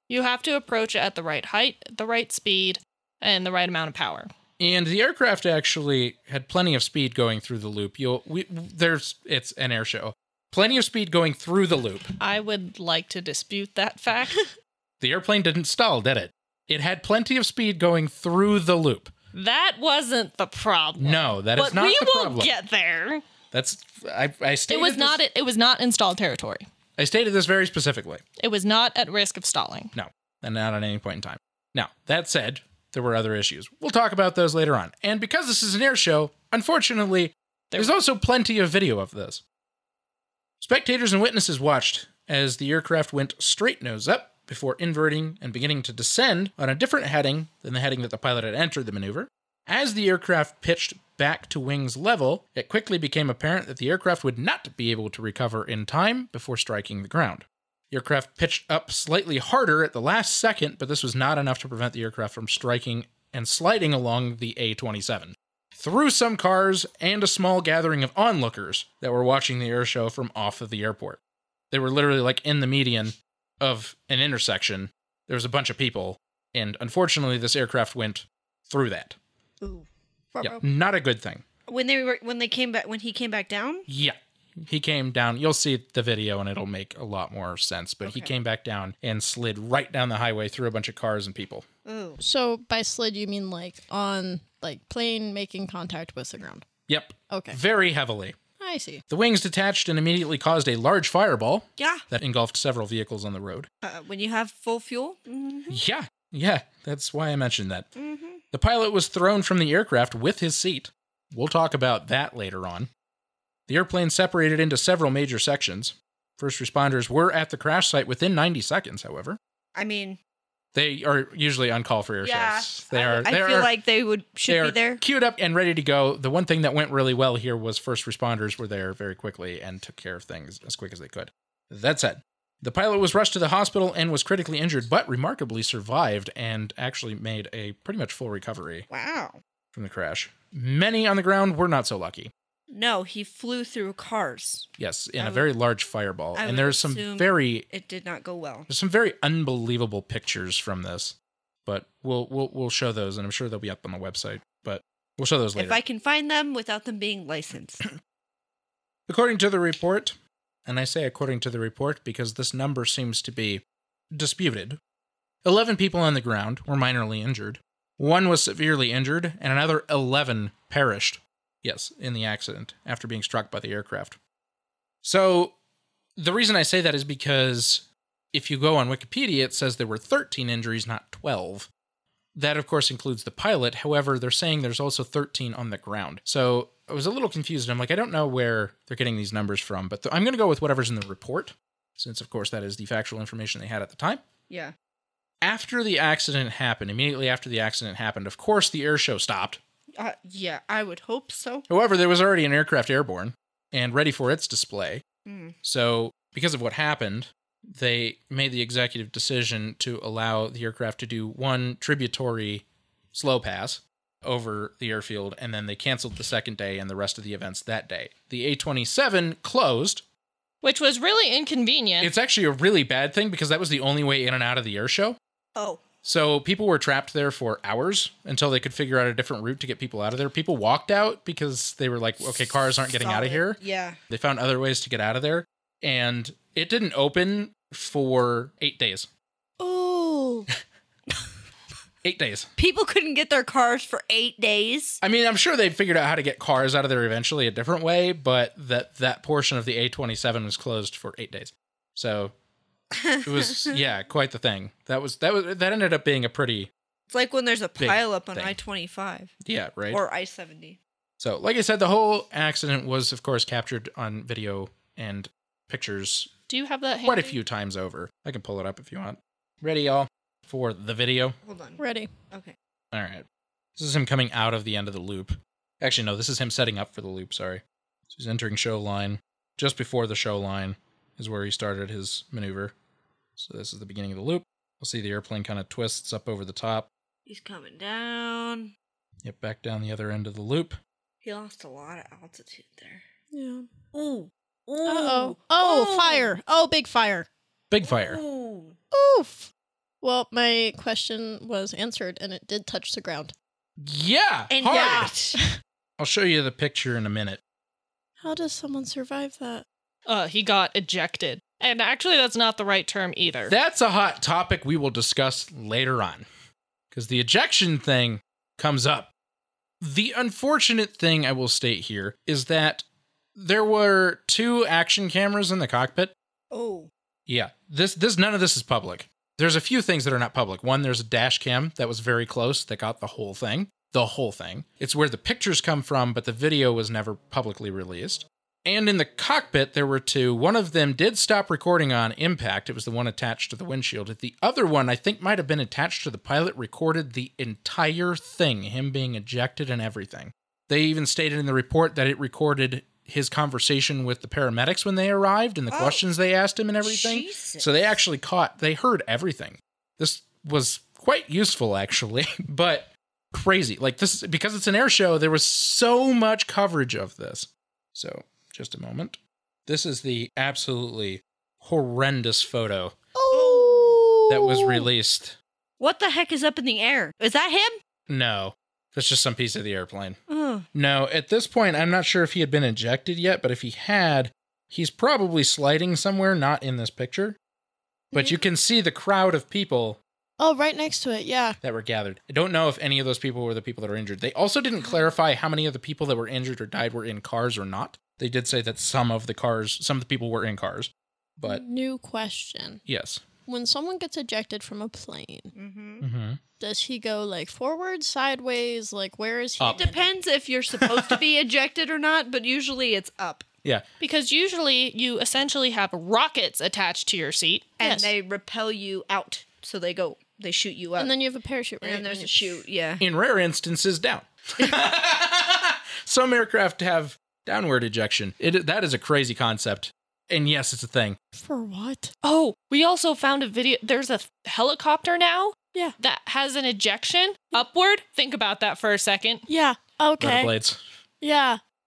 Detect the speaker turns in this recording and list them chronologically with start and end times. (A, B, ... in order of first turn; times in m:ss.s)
0:00.1-0:04.3 A
0:04.6-0:12.1 B
0:12.2-0:14.5 A
0:15.0-0:19.1 B
0:19.3-0:23.2 A
0:21.0-0:22.5 B
0:23.5-0:25.2 B
0:24.7-0:26.6 A
0:27.0-0:28.2 B
0:28.4-0:29.9 A
0:29.9-0:39.4 B
0:40.6-1:11.2 B
1:11.7-1:19.2 B
1:19.6-1:19.9 C
1:20.4-1:21.4 B
1:21.7-1:23.9 C
1:23.9-1:31.6 B
1:28.0-1:28.3 C
1:31.9-1:32.2 C
1:32.2-1:36.7 D
1:36.9-1:38.4 B
1:37.3-1:37.6 D
1:38.6-1:39.0 D
1:39.1-1:43.7 B
1:41.8-1:42.0 C
1:43.8-1:45.8 C
1:45.7-1:47.9 B
1:48.0-1:48.4 C
1:48.5-1:52.9 B
1:53.7-1:59.4 B
1:59.8-2:00.2 C
2:00.8-2:03.7 B
2:02.2-2:05.0 C
2:04.5-2:18.9 B
2:18.9-2:19.4 C
2:19.7-2:22.3 B
2:22.7-2:25.5 C
2:24.8-2:27.7 B
2:26.4-2:28.7 C
2:28.7-2:35.8 B
2:35.6-2:37.8 C
2:39.1-2:40.2 B
2:40.7-2:43.6 B
2:44.1-2:44.8 B
2:45.4-2:54.2 B
2:55.0-2:55.6 B
2:56.2-3:01.7 B
3:02.4-3:14.2 B
3:15.4-3:19.6 B
3:20.0-3:21.6 C
3:21.7-3:25.0 B
3:25.3-3:25.6 C
3:25.6-3:40.0 B
3:40.6-3:42.1 A
3:42.0-3:45.2 B
3:45.6-3:45.8 C
3:46.0-3:53.6 B
3:52.9-3:54.0 C
3:54.1-3:59.1 B
3:59.6-4:00.5 D
4:02.0-4:02.5 B
4:02.6-4:05.0 C
4:05.0-4:12.3 B
4:13.0-4:13.8 C
4:13.2-4:16.7 B
4:17.1-4:19.3 C
4:17.8-4:18.6 B
4:19.4-4:20.0 B
4:19.9-4:20.8 C
4:21.2-4:26.3 B
4:26.5-4:27.4 A
4:27.0-4:31.4 B
4:31.4-4:32.6 C
4:31.8-4:32.1 D
4:32.9-4:33.2 B
4:33.8-4:42.7 B
4:43.4-4:46.9 B
4:47.3-4:48.7 C
4:49.2-4:50.8 B
4:51.2-4:53.0 C
4:53.3-4:53.7 D
4:53.9-4:56.3 C
4:54.8-4:57.3 D
4:57.7-4:58.2 B
4:57.8-4:58.8 C
4:58.9-4:59.5 D
5:00.0-5:03.3 D
5:03.8-5:05.1 B
5:04.5-5:05.4 C
5:04.7-5:05.6 D
5:06.0-5:07.4 B
5:08.2-5:09.6 D
5:10.1-5:13.5 A
5:13.5-5:16.3 B
5:16.9-5:19.1 B
5:19.8-5:26.1 B
5:26.5-5:26.9 C
5:27.3-6:13.0 B
5:55.7-5:56.0 C
5:56.8-5:57.9 C
6:13.2-6:14.9 D
6:13.3-6:14.1 C
6:14.3-6:15.4 B
6:15.8-6:17.8 C
6:18.1-6:20.2 B
6:20.3-6:20.7 C
6:20.7-6:27.4 B
6:28.1-6:30.0 B
6:30.4-6:31.6 D
6:31.6-6:41.6 B
6:41.4-6:42.8 D
6:42.9-6:43.2 B
6:43.5-6:45.5 D
6:45.5-6:46.0 C
6:46.0-6:46.4 B
6:46.6-6:50.1 D
6:49.6-6:49.8 B
6:49.7-6:53.5 C
6:54.0-6:57.7 A
6:57.8-7:01.1 C
6:57.8-6:58.1 D
7:01.0-7:02.6 D
7:01.8-7:03.0 C
7:03.0-7:11.2 B
7:11.3-7:12.1 D
7:12.2-7:19.4 A
7:19.5-7:20.5 D
7:20.2-7:20.8 B
7:21.2-7:21.6 D